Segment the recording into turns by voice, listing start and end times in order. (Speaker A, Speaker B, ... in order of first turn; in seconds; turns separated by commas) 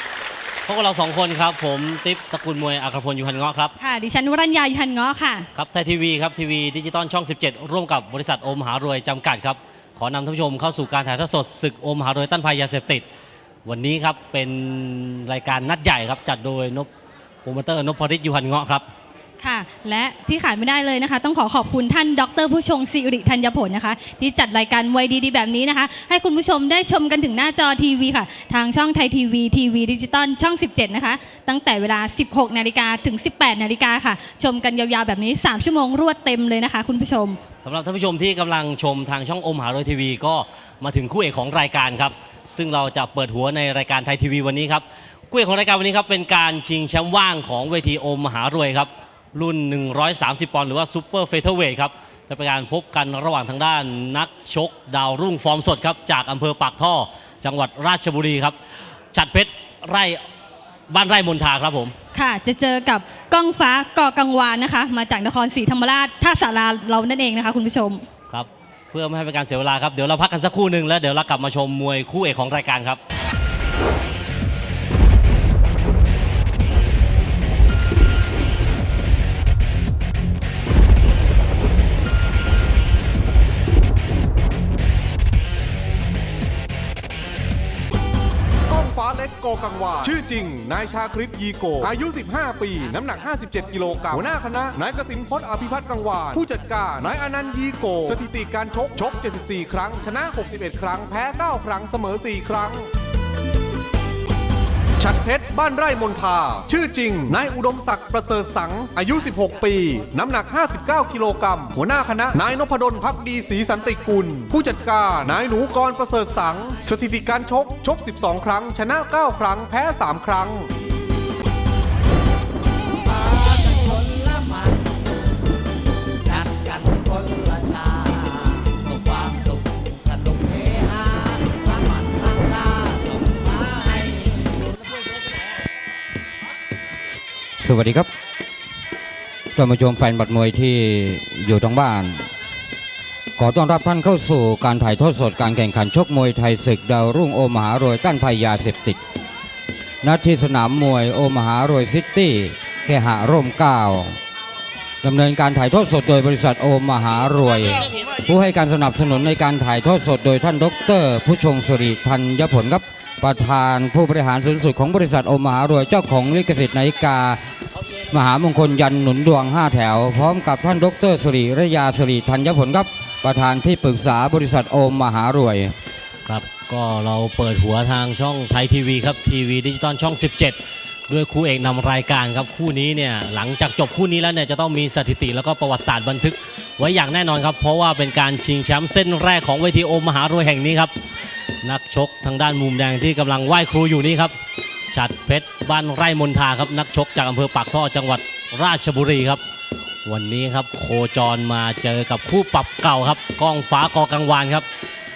Speaker A: 0.6-3.7, Speaker B: 3.8-5.5, Speaker A: 5.5-13.1, Speaker A: 13.6-16.9, Speaker A: 17.4-18.8, Speaker B: 19.4-37.4, Speaker A: 37.6-58.5, Speaker A: 59.1-60.2, Speaker A: 60.9-61.9, Speaker B: 62.1-68.0, Speaker A: 68.3-73.0, Speaker C: 88.7-102.9, Speaker C: 105.0-120.7, Speaker D: 137.6-138.1, Speaker D: 139.5-142.3, Speaker D: 143.4-149.0, Speaker D: 150.0-154.2, Speaker D: 155.0-167.4, Speaker D: 168.1-175.7, Speaker A: 176.2-190.9, Speaker A: 191.6-199.4, Speaker A: 200.1-204.7